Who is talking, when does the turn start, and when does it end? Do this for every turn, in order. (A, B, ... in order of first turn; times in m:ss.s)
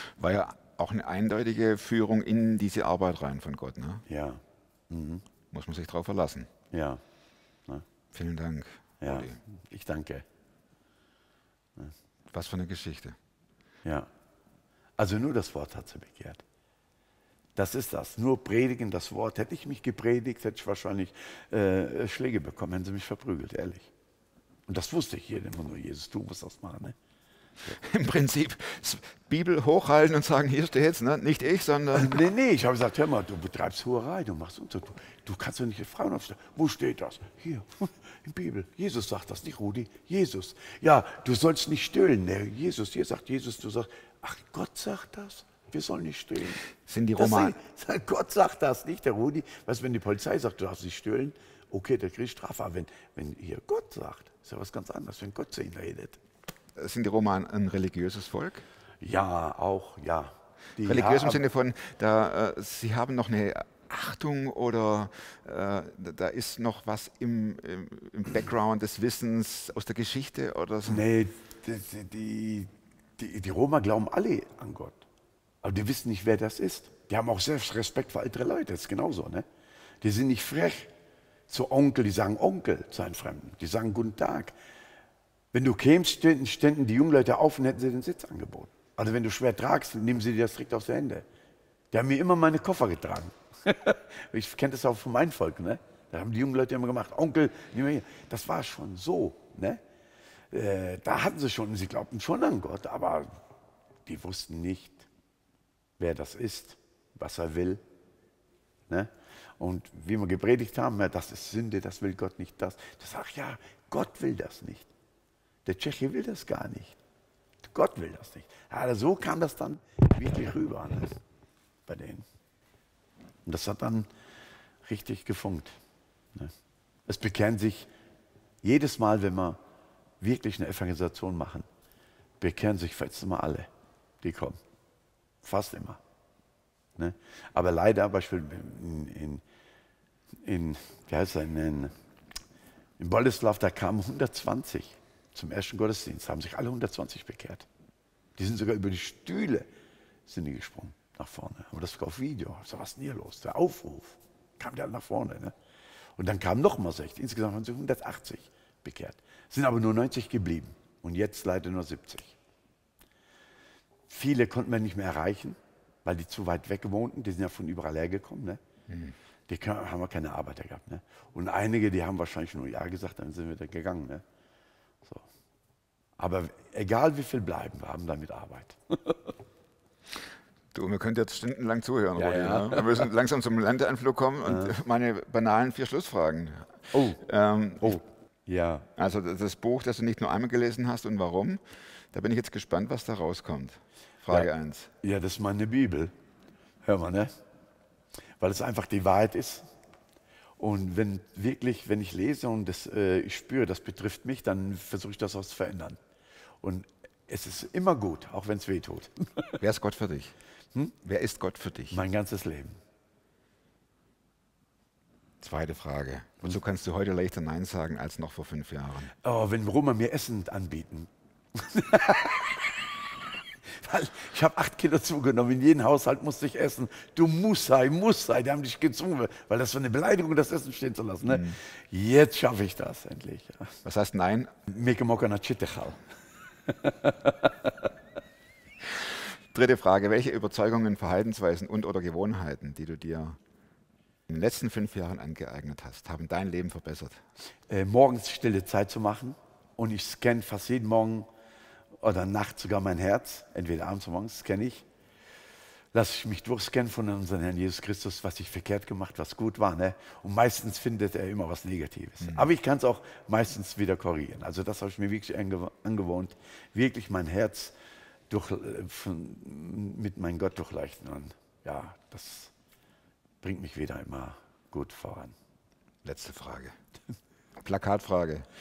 0:00.2-0:04.0 A
0:04.1-0:05.2 B
0:05.5-0:06.5 A
0:06.7-0:07.0 B
0:08.1-0:09.4 A
0:09.0-0:10.2 B
0:12.3-0:13.2 A
0:13.8-0:14.1 B
0:15.0-0:16.4 B
0:17.6-0:23.9 B
0:24.7-0:27.0 B
0:27.7-0:32.2 A
0:31.9-0:56.2 B
0:46.8-0:47.6 A
0:56.8-0:58.6 A
0:59.0-1:01.4 B
1:00.8-1:11.1 A
1:10.9-1:15.0 B
1:15.6-1:19.5 B
1:20.0-1:20.9 B
1:21.5-1:24.6 B
1:25.5-1:31.3 B
1:31.9-1:39.8 B
1:40.5-1:43.4 B
1:44.1-1:45.1 B
1:46.0-1:47.8 B
1:48.9-1:54.9 B
1:55.6-1:57.0 B
1:57.6-2:01.2 B
2:01.9-2:02.2 B
2:03.5-2:04.1 B
2:04.8-2:05.8 B
2:07.1-2:07.9 B
2:08.6-2:09.6 B
2:10.2-2:11.7 B
2:12.4-2:13.7 B
2:14.2-2:14.6 B
2:15.4-2:16.0 B
2:17.0-2:19.4 B
2:20.4-2:21.9 B
2:23.0-2:27.7 B
2:28.4-2:29.7 B
2:30.3-2:35.5 B
2:36.2-2:42.4 B
2:44.1-2:48.6 B
2:48.9-2:49.1 A
2:49.5-2:54.2 B
2:56.2-2:59.2 B
3:00.7-3:08.0 A
3:02.2-3:03.1 B
3:04.4-3:04.8 B
3:06.9-3:07.2 B
3:07.8-3:08.9 B
3:09.0-3:11.6 A
3:12.1-3:14.9 A
3:15.0-3:16.1 B
3:16.8-3:17.3 B
3:18.4-3:19.7 B
3:20.6-3:26.0 B
3:26.6-3:29.5 B
3:29.6-3:30.3 A
3:31.0-3:32.0 A
3:31.9-3:32.8 B
3:35.4-3:39.1 A
3:39.2-3:42.7 B
3:43.7-3:53.8 B
3:51.3-3:51.6 A
3:53.8-3:54.5 A
3:54.7-3:56.0 B
3:56.7-3:57.5 B
3:58.8-4:03.4 A
4:04.3-4:07.2 A
4:07.7-4:11.3 B
4:12.0-4:14.9 B
4:15.9-4:27.8 B
4:22.2-4:22.5 A
4:28.3-4:32.5 B
4:33.4-4:35.4 B
4:36.0-4:36.8 A
4:37.6-4:38.5 A